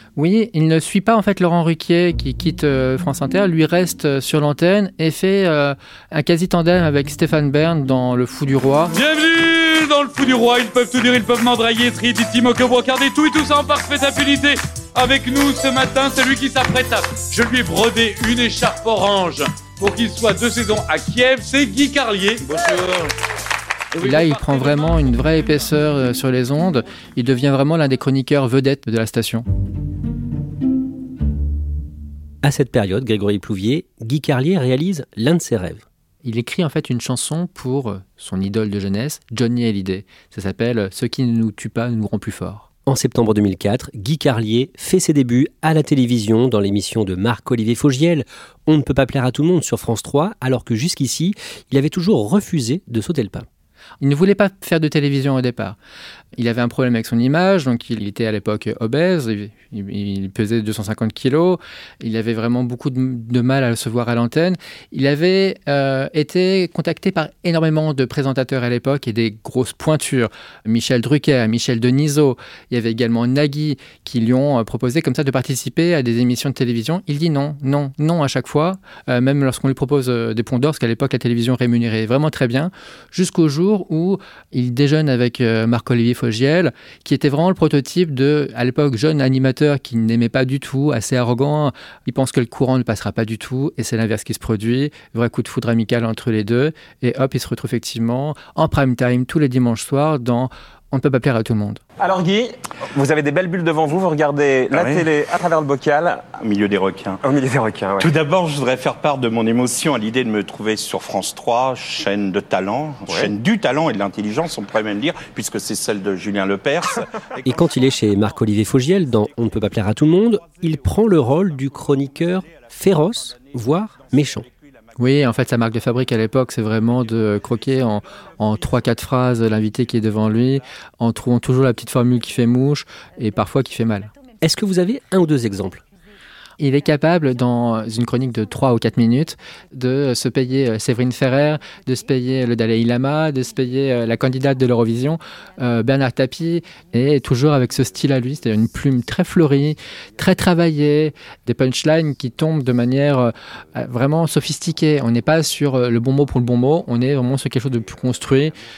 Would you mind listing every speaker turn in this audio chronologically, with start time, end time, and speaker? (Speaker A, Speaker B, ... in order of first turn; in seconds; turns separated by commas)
Speaker A: 0.2-8.9, Speaker B: 8.9-23.1, Speaker B: 23.9-25.5, Speaker A: 24.0-29.4, Speaker C: 32.4-35.8, Speaker A: 36.2-42.7, Speaker C: 42.9-53.5, Speaker A: 54.0-55.8, Speaker A: 56.4-101.8, Speaker D: 102.0-106.3, Speaker E: 104.7-105.1, Speaker E: 106.3-107.2, Speaker D: 107.2-108.1, Speaker E: 108.0-117.4, Speaker D: 113.1-113.3, Speaker C: 117.4-124.5, Speaker E: 119.6-119.9, Speaker E: 122.4-125.2, Speaker A: 125.0-134.1, Speaker C: 134.4-135.8, Speaker A: 136.6-158.6